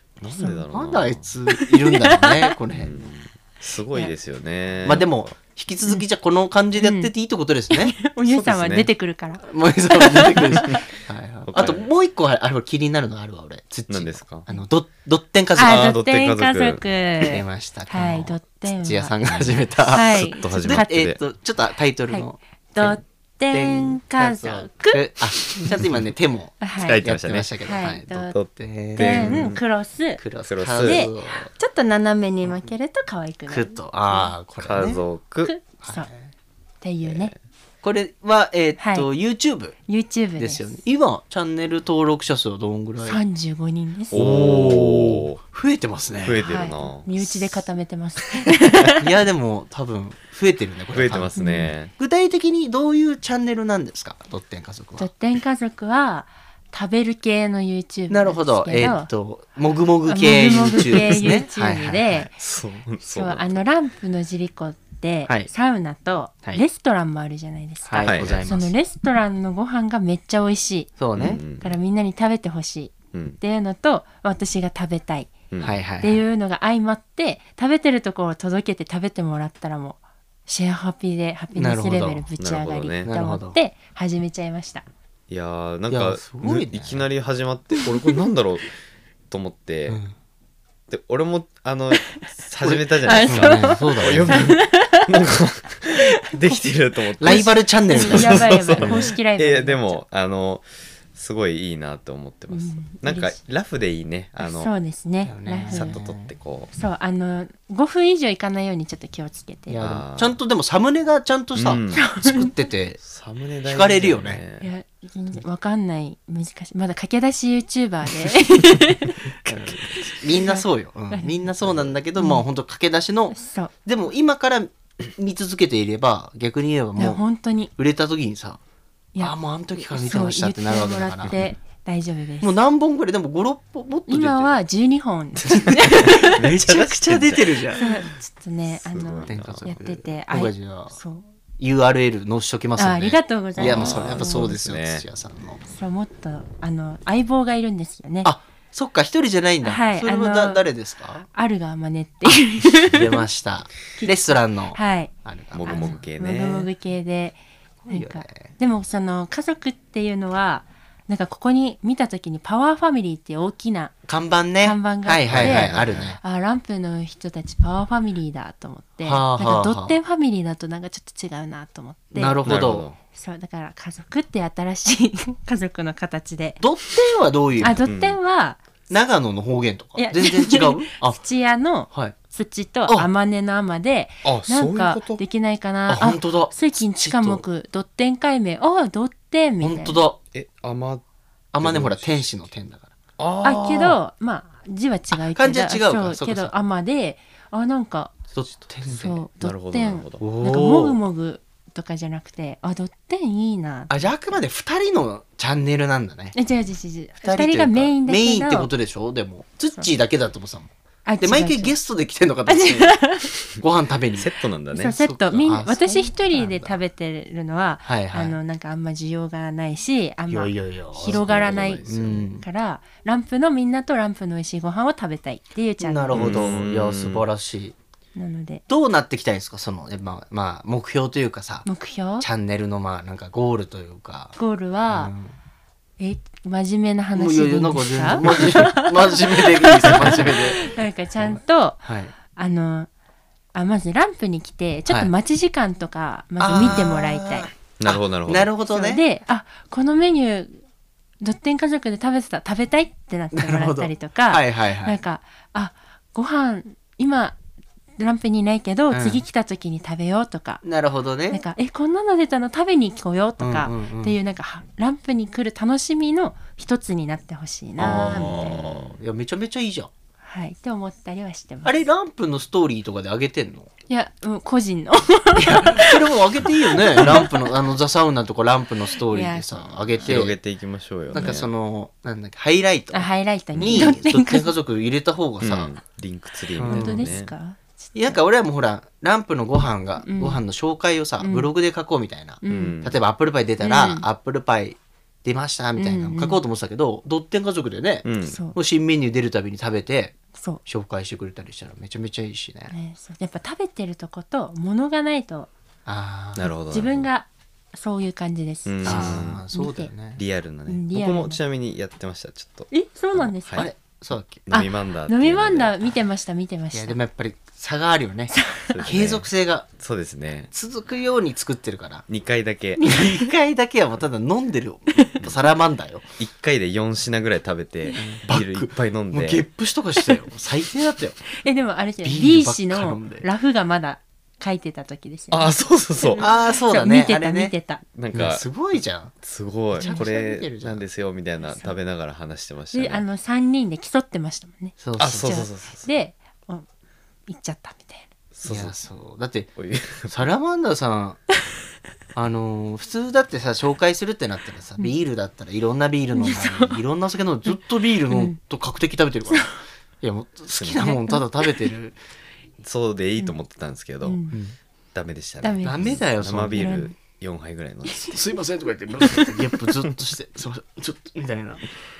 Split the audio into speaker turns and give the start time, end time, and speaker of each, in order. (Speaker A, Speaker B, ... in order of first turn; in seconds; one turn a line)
Speaker A: 0.2-1.3
Speaker B: 0.3-3.0
Speaker C: 0.3-0.6
Speaker C: 1.5-2.5
Speaker A: 2.7-5.3
Speaker B: 4.8-8.0
Speaker C: 6.8-7.1
Speaker C: 7.7-10.8
Speaker A: 8.2-8.9
Speaker B: 9.4-15.9
Speaker A: 11.5-11.9
Speaker A: 13.9-14.5
Speaker C: 15.6-19.1
Speaker A: 15.6-16.8
Speaker B: 17.2-23.0
Speaker A: 19.8-21.2
Speaker C: 19.9-20.9
Speaker C: 22.1-25.8
Speaker B: 23.5-29.5
Speaker C: 26.6-27.0
Speaker A: 26.8-27.5
Speaker C: 27.6-28.4
Speaker A: 28.2-29.6
Speaker C: 28.9-30.2
Speaker B: 30.2-31.5
Speaker A: 30.4-31.1
Speaker C: 30.8-34.4
Speaker B: 33.5-35.0
Speaker A: 34.6-35.5
Speaker C: 35.4-36.1
Speaker B: 35.8-36.2
Speaker C: 36.8-37.3
Speaker A: 37.0-37.3
Speaker B: 37.8-39.8
Speaker C: 38.8-39.1
Speaker C: 39.9-40.8
Speaker B: 40.4-43.2
Speaker C: 43.0-44.2
Speaker B: 44.1-46.4
Speaker A: 44.1-45.4
Speaker A: 46.2-47.4
Speaker C: 46.4-49.0
Speaker B: 48.9-51.4
Speaker A: 50.9-51.9
Speaker C: 51.4-51.7
Speaker B: 51.9-55.1
Speaker C: 55.0-59.1
Speaker B: 58.1-62.3
Speaker C: 60.1-62.4
Speaker A: 62.4-63.6
Speaker C: 63.0-75.4
Speaker B: 67.8-68.7
Speaker A: 68.0-68.5
Speaker B: 71.0-71.4
Speaker A: 71.2-71.8
Speaker A: 73.1-73.4
Speaker A: 75.5-75.8
Speaker B: 75.6-76.2
Speaker C: 76.0-84.9
Speaker B: 81.5-82.2
Speaker A: 82.4-83.1
Speaker B: 83.0-83.6
Speaker A: 85.3-88.7
Speaker B: 85.9-87.1
Speaker A: 89.3-90.0
Speaker B: 89.9-90.1
Speaker A: 90.9-104.7
Speaker B: 92.6-94.6
Speaker C: 93.0-95.3
Speaker C: 95.9-96.6
Speaker B: 97.2-99.1
Speaker C: 97.2-100.0
Speaker C: 102.5-103.4
Speaker C: 104.4-106.0
Speaker B: 105.2-106.3
Speaker A: 105.7-106.7
Speaker C: 106.7-109.8
Speaker B: 109.7-113.0
Speaker A: 109.8-110.4
Speaker A: 111.5-112.1
Speaker C: 111.9-112.5
Speaker A: 113.0-114.7
Speaker B: 113.7-114.4
Speaker C: 114.6-121.4
Speaker B: 119.5-128.6
Speaker A: 121.6-121.9
Speaker C: 122.2-122.4
Speaker C: 123.3-123.7
Speaker C: 127.0-127.7
Speaker C: 129.2-132.5
Speaker B: 129.2-131.4
Speaker B: 132.4-134.6
Speaker C: 134.1-136.4
Speaker B: 135.5-137.8
Speaker A: 136.4-138.0
Speaker C: 137.8-141.3
Speaker A: 138.7-139.7
Speaker B: 139.3-141.0
Speaker B: 141.6-145.6
Speaker C: 142.8-144.6
Speaker A: 143.6-145.1
Speaker C: 145.7-148.3
Speaker B: 148.2-151.3
Speaker C: 149.6-150.6
Speaker C: 151.3-153.2
Speaker B: 152.8-156.0
Speaker C: 154.0-155.1
Speaker A: 155.5-156.7
Speaker C: 155.6-164.0
Speaker B: 157.8-158.5
Speaker B: 164.1-166.2
Speaker C: 164.6-172.4
Speaker A: 165.3-166.2
Speaker B: 169.0-170.0
Speaker B: 172.1-172.9
Speaker A: 172.4-173.0
Speaker C: 173.1-176.6
Speaker B: 176.6-177.8
Speaker C: 177.6-178.6
Speaker A: 177.8-178.2
Speaker B: 178.9-181.2
Speaker C: 180.0-190.0
Speaker B: 181.9-182.2
Speaker A: 184.2-185.2
Speaker B: 185.9-187.4
Speaker B: 189.6-190.2
Speaker A: 190.3-191.0
Speaker B: 191.5-192.9
Speaker A: 191.6-192.3
Speaker A: 193.2-194.0
Speaker C: 193.4-198.2
Speaker B: 195.1-196.6
Speaker B: 198.3-199.2
Speaker C: 198.9-204.1
Speaker A: 199.4-200.2
Speaker B: 200.2-201.0
Speaker B: 203.9-206.3
Speaker C: 206.3-208.7
Speaker B: 207.2-210.7
Speaker C: 211.1-211.8
Speaker B: 211.2-213.0
Speaker C: 212.5-213.4
Speaker B: 213.6-214.3
Speaker A: 214.2-215.0
Speaker C: 214.7-226.4
Speaker B: 215.0-216.8
Speaker B: 217.8-218.4
Speaker B: 220.3-222.4
Speaker A: 221.0-222.3
Speaker B: 225.8-227.8
Speaker A: 226.1-227.3
Speaker C: 228.2-228.6
Speaker B: 228.7-231.7
Speaker C: 231.7-232.3
Speaker B: 232.2-234.3
Speaker C: 234.4-235.1
Speaker B: 234.9-235.3
Speaker C: 236.0-242.9
Speaker B: 237.2-242.1
Speaker C: 243.5-247.5
Speaker B: 246.4-249.0
Speaker A: 247.8-248.5
Speaker C: 248.7-250.6
Speaker C: 251.2-257.4
Speaker B: 253.3-255.0
Speaker C: 258.0-260.6
Speaker B: 258.9-259.2
Speaker B: 260.6-261.4
Speaker C: 261.3-268.6
Speaker B: 263.4-264.2
Speaker B: 267.8-269.9
Speaker A: 267.8-269.0
Speaker C: 270.2-271.9
Speaker B: 271.6-273.7
Speaker C: 273.9-277.5
Speaker B: 275.4-280.4
Speaker C: 279.1-279.7
Speaker A: 280.0-281.5
Speaker B: 281.1-285.8
Speaker C: 282.9-284.6
Speaker A: 283.6-284.0
Speaker A: 285.4-287.3
Speaker B: 286.6-287.1
Speaker C: 286.6-288.2
Speaker B: 287.9-302.7
Speaker C: 290.0-290.4
Speaker C: 291.2-291.5
Speaker C: 292.4-292.8
Speaker A: 292.5-293.0
Speaker C: 293.6-294.1
Speaker C: 295.8-296.4
Speaker A: 298.0-298.4
Speaker C: 298.2-298.6
Speaker C: 300.3-300.6
Speaker C: 302.7-305.5
Speaker B: 305.9-306.5
Speaker A: 306.4-307.1
Speaker C: 306.7-309.9
Speaker A: 308.7-309.4
Speaker B: 308.9-310.2
Speaker A: 310.2-313.7
Speaker C: 310.7-311.4
Speaker C: 312.7-313.7
Speaker B: 313.6-314.4
Speaker A: 314.3-315.8
Speaker C: 314.5-317.0
Speaker B: 316.7-319.7
Speaker C: 318.3-318.9
Speaker A: 318.7-320.5
Speaker B: 320.5-322.1
Speaker A: 322.1-323.0
Speaker B: 322.8-326.1
Speaker C: 322.8-323.2
Speaker A: 326.2-329.5
Speaker B: 328.0-331.2
Speaker C: 331.3-337.8
Speaker B: 332.0-333.3
Speaker A: 335.3-336.3
Speaker B: 336.2-337.5
Speaker A: 337.9-338.5
Speaker B: 338.1-339.1
Speaker A: 339.2-343.1
Speaker B: 339.8-340.8
Speaker C: 339.8-340.1
Speaker C: 341.4-341.8
Speaker C: 342.7-346.7
Speaker B: 344.8-345.4
Speaker A: 345.0-345.9
Speaker C: 347.3-348.1
Speaker A: 348.4-348.8
Speaker B: 348.4-349.5
Speaker A: 349.6-350.3
Speaker B: 350.1-351.2
Speaker B: 352.1-362.0
Speaker C: 356.1-356.8
Speaker C: 358.1-358.4
Speaker C: 360.6-361.7
Speaker A: 362.6-364.2
Speaker C: 364.0-364.4
Speaker B: 364.3-364.6
Speaker A: 364.9-368.2
Speaker C: 365.4-366.9
Speaker B: 365.6-366.9
Speaker C: 367.9-368.1
Speaker B: 368.1-371.6
Speaker A: 369.0-369.4